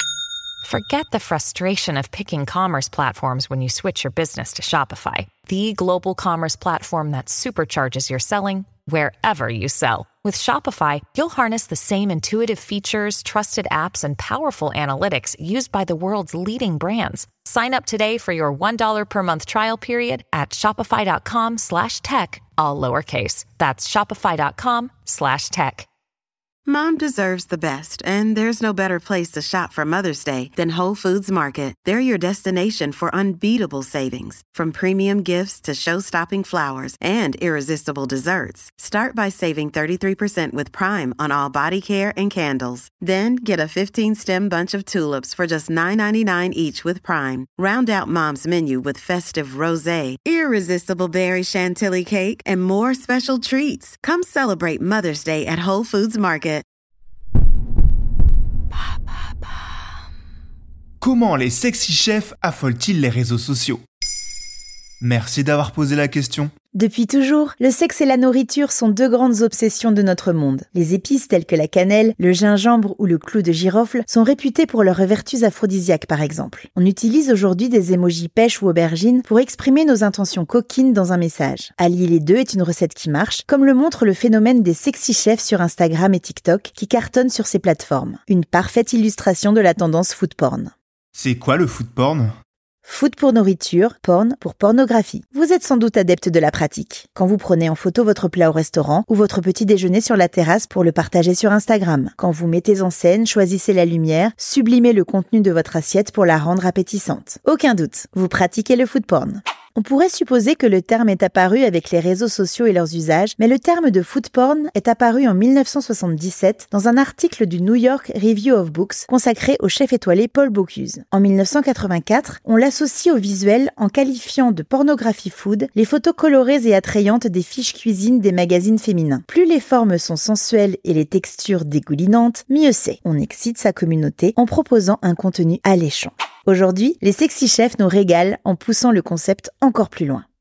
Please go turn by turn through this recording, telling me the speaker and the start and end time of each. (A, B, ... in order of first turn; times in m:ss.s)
0:00.6-0:25.9 A
0:26.7-0:56.6 B
1:01.0-1:03.8 C
1:05.0-1:06.5 C
1:06.7-1:30.7 D
1:31.1-1:32.3 C
1:32.8-2:20.2 D